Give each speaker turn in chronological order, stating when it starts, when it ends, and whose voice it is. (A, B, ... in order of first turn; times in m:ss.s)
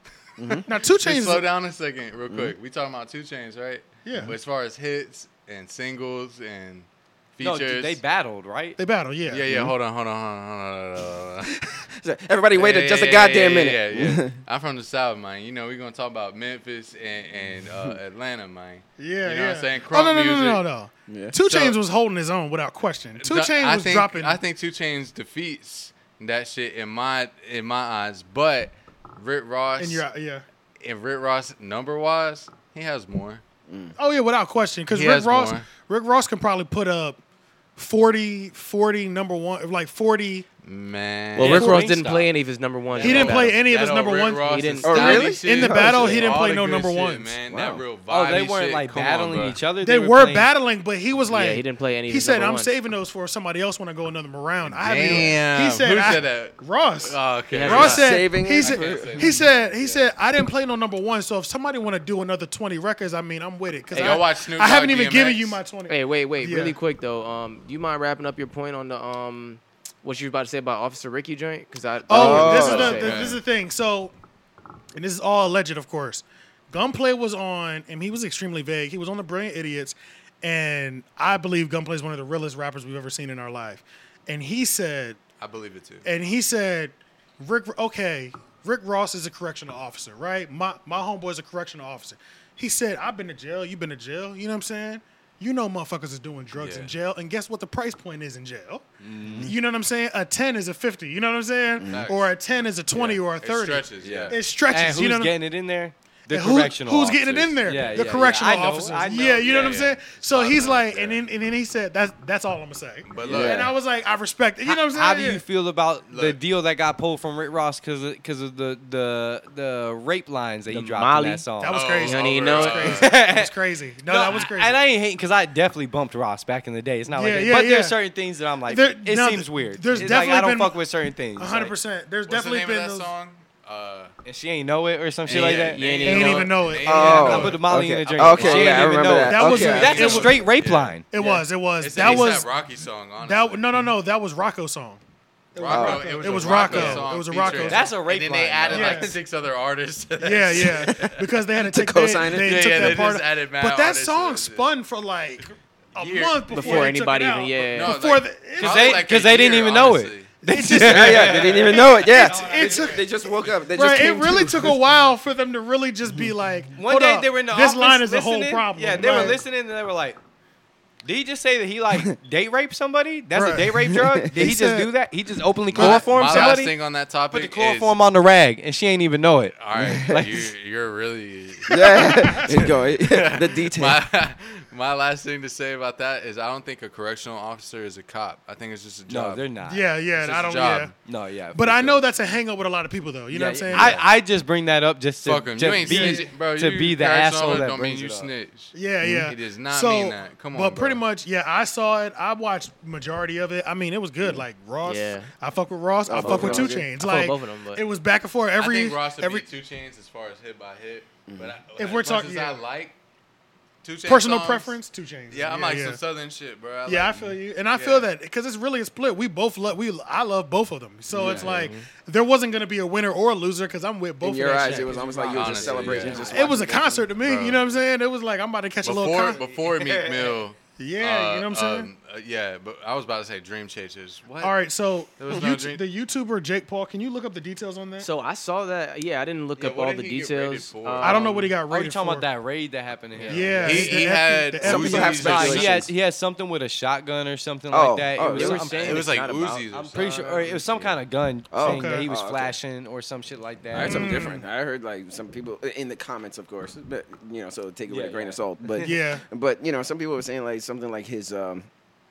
0:00.4-0:00.7 A
0:00.5-0:08.0 B
0:00.7-0:01.4 C
0:02.3-0:02.5 A
0:04.0-0:04.4 C
0:07.4-0:08.8 D
0:08.8-0:09.4 C
0:09.3-0:11.6 B
0:09.5-0:09.7 A
0:11.7-0:14.4 A
0:12.5-0:20.6 B
0:19.0-0:24.4 C
0:21.1-0:21.3 A
0:21.4-0:21.8 B
0:23.2-0:30.0 B
0:29.8-0:30.4 C
0:30.8-0:33.4 B
0:33.7-0:34.0 A
0:34.0-0:37.2 C
0:34.9-0:35.7 B
0:37.8-0:40.5 C
0:40.6-0:41.8 B
0:41.4-0:43.6 E
0:41.4-0:42.3 D
0:41.6-0:41.8 C
0:43.0-0:43.4 D
0:43.0-0:47.4 C
0:43.0-0:49.6 B
0:44.5-0:45.4 E
0:44.8-0:46.3 A
0:47.5-0:47.8 A
0:48.1-0:50.5 D
0:49.8-1:06.8 C
0:51.3-0:52.7 E
0:54.6-1:00.1 B
0:57.5-0:58.1 E
0:57.7-0:59.3 A
1:03.9-1:04.2 E
1:04.0-1:05.6 B
1:05.9-1:13.4 E
1:12.1-1:14.1 C
1:12.1-1:13.1 A
1:12.5-1:13.4 B
1:15.0-1:25.2 C
1:25.4-1:26.1 B
1:26.0-1:38.8 C
1:36.6-1:36.9 B
1:39.0-1:39.6 D
1:39.4-1:45.4 C
1:41.9-1:42.3 B
1:42.9-1:44.4 B
1:44.0-1:49.8 D
1:46.3-1:55.4 C
1:47.7-1:48.2 B
1:49.4-1:51.2 B
1:53.1-1:53.7 B
1:53.3-1:53.7 A
1:54.6-2:01.9 D
1:56.1-1:56.4 B
2:00.7-2:03.0 E
2:01.6-2:04.8 C
2:01.7-2:03.1 B
2:02.8-2:03.5 D
2:04.1-2:11.8 D
2:07.1-2:08.0 C
2:08.7-2:10.8 C
2:11.4-2:13.1 C
2:12.3-2:14.1 B
2:14.2-2:21.4 D
2:15.3-2:17.6 B
2:15.3-2:17.6 C
2:15.6-2:16.4 E
2:16.8-2:20.3 A
2:18.1-2:19.0 E
2:18.6-2:20.5 C
2:19.6-2:21.3 B
2:21.1-2:22.5 C
2:21.8-2:23.6 B
2:23.2-2:25.0 C
2:25.6-2:31.2 B
2:25.6-2:27.9 C
2:25.7-2:26.2 A
2:26.4-2:29.1 D
2:28.7-2:29.1 C
2:30.2-2:39.0 C
2:30.7-2:33.0 A
2:32.3-2:34.7 B
2:36.0-2:36.9 B
2:36.5-2:38.0 E
2:37.7-2:40.3 B
2:38.6-2:43.1 D
2:40.4-2:49.4 C
2:40.8-2:44.8 A
2:46.7-2:50.2 D
2:51.0-2:56.8 D
2:53.4-2:54.4 A
2:54.4-2:54.9 C
2:55.7-2:56.7 C
2:55.7-2:58.0 B
2:57.3-3:00.5 D
2:59.6-3:09.5 B
2:59.8-3:00.2 A
3:01.7-3:04.0 A
3:01.8-3:02.6 C
3:09.1-3:09.8 D
3:09.7-3:10.9 C
3:10.2-3:10.9 B
3:11.0-3:12.0 D
3:11.5-3:14.0 C
3:13.3-3:18.3 D
3:13.7-3:14.1 B
3:15.2-3:18.7 B
3:15.8-3:16.3 C
3:18.7-3:29.4 C
3:19.0-3:19.3 A
3:19.3-3:21.0 B
3:24.8-3:25.3 E
3:26.1-3:26.9 A
3:26.2-3:27.8 E
3:28.6-3:33.0 B
3:31.3-3:31.5 A
3:31.8-3:32.6 C
3:33.8-3:34.8 B
3:34.1-3:36.0 C
3:35.3-3:38.1 B
3:36.9-3:45.0 C
3:41.1-3:41.6 A
3:41.2-3:41.5 B
3:41.4-3:41.9 E
3:44.2-3:47.1 A
3:44.6-3:46.8 D
3:45.3-3:46.2 B
3:46.2-3:49.4 C
3:47.2-3:47.6 B
3:48.8-3:54.6 B
3:49.4-3:50.4 D
3:50.8-3:51.9 C
3:54.4-3:58.1 C
3:55.2-3:55.8 B
3:58.0-4:01.3 E
3:59.6-4:01.4 B
4:01.0-4:02.3 C
4:01.7-4:03.9 D
4:03.2-4:05.8 B
4:03.3-4:05.5 C
4:03.6-4:04.1 E
4:04.6-4:05.9 A
4:04.7-4:09.1 D
4:07.7-4:09.6 A
4:08.4-4:11.0 B
4:09.7-4:14.2 D
4:11.5-4:12.6 A
4:11.6-4:12.0 C
4:13.7-4:21.7 A
4:13.8-4:14.4 C
4:17.9-4:19.0 D
4:18.8-4:19.2 C